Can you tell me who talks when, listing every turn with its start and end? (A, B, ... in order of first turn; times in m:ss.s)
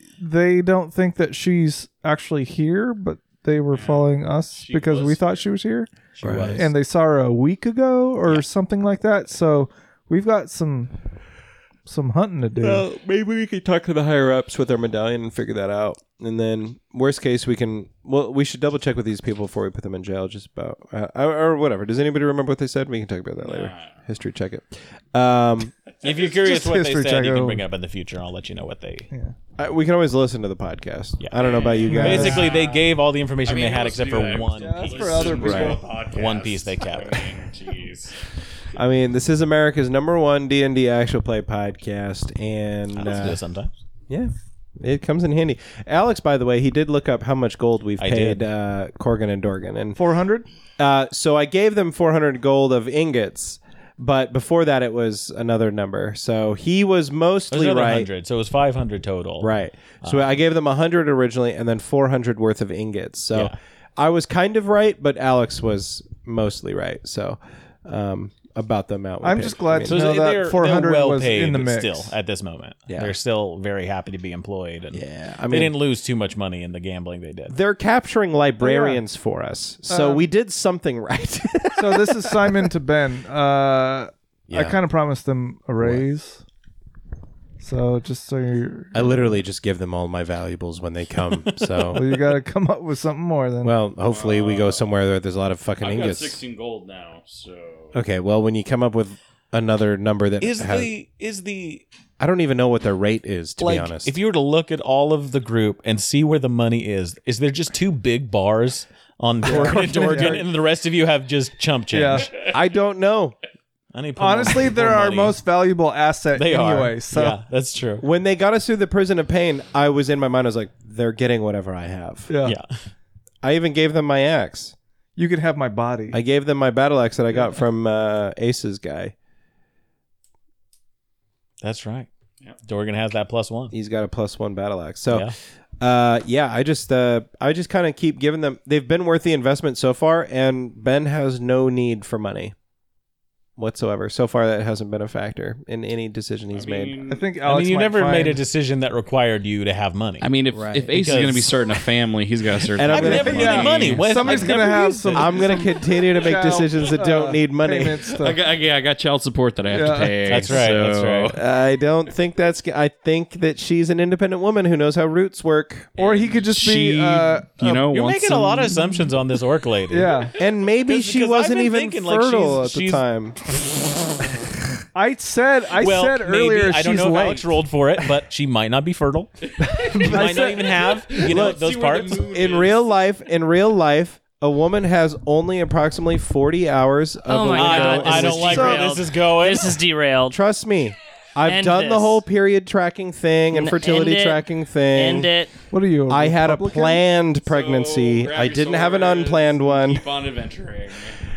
0:00.2-0:05.9 A
0:03.7-0:05.4 B
0:06.2-0:06.7 C
0:06.2-0:06.7 D
0:06.6-0:11.0 A
0:11.9-0:12.8 A
0:12.6-0:25.7 D
0:23.4-0:24.0 B
0:25.9-0:26.3 B
0:26.0-0:29.1 C
0:26.4-0:27.6 A
0:29.6-0:32.5 D
0:31.2-0:37.3 C
0:31.4-0:32.9 B
0:31.9-0:32.5 A
0:33.4-0:38.2 B
0:34.6-0:35.9 A
0:35.4-0:35.8 D
0:38.7-0:43.4 D
0:42.9-0:43.7 C
0:44.1-0:50.0 D
0:48.0-0:48.4 C
0:50.0-0:50.5 A
0:50.8-0:58.1 D
0:57.5-1:00.3 C
0:59.4-1:10.0 D
1:09.2-1:12.1 A
1:09.9-1:17.6 C
1:12.9-1:13.1 D
1:14.9-1:15.7 D
1:17.5-1:22.7 D
1:18.6-1:19.0 A
1:19.9-1:20.2 A
1:21.8-1:26.4 A
1:24.5-1:24.8 D
1:27.6-1:29.4 A
1:28.9-1:32.2 D
1:31.9-1:33.8 A
1:33.6-1:36.4 D
1:34.0-1:34.9 B
1:35.8-1:38.0 B
1:37.9-1:40.9 D
1:40.4-1:41.9 C
1:42.2-1:44.2 D
1:43.6-1:52.3 C
1:49.4-1:50.5 A
1:49.5-1:50.4 D
1:51.9-1:52.3 A
1:52.5-1:53.4 D
1:53.9-1:55.4 C
1:54.2-1:57.4 A
1:56.4-1:58.1 C
1:58.0-2:02.3 D
2:02.3-2:02.6 A
2:03.4-2:04.8 D
2:05.2-2:06.2 A
2:06.1-2:09.1 D
2:11.6-2:12.1 C
2:12.6-2:13.7 C
2:13.7-2:22.5 D
2:23.6-2:27.0 D
2:26.5-2:27.2 B
2:27.1-2:28.4 A
2:27.4-2:30.3 C
2:30.2-2:34.4 B
2:30.5-2:30.9 D
2:30.9-2:31.8 C
2:32.8-2:34.4 D
2:32.8-2:35.7 C
2:33.0-2:38.4 A
2:35.1-2:38.0 D
2:38.1-2:41.4 B
2:39.7-2:40.5 A
2:40.3-2:41.3 C
2:41.3-2:46.0 D
2:46.0-2:47.6 A
2:46.0-2:48.8 B
2:47.6-2:50.3 C
2:49.9-2:50.3 A
2:50.4-2:53.4 D
2:50.8-2:53.0 C
2:54.9-2:57.6 A
2:55.8-2:59.3 C
2:59.5-3:02.9 B
2:59.6-3:00.7 A
3:00.0-3:02.3 C
3:01.2-3:08.7 D
3:07.2-3:10.4 E
3:07.6-3:09.8 C
3:08.0-3:08.9 A
3:10.3-3:15.3 D
3:11.4-3:12.2 E
3:13.5-3:15.5 E
3:15.7-3:17.0 A
3:16.1-3:20.0 D
3:17.4-3:21.2 B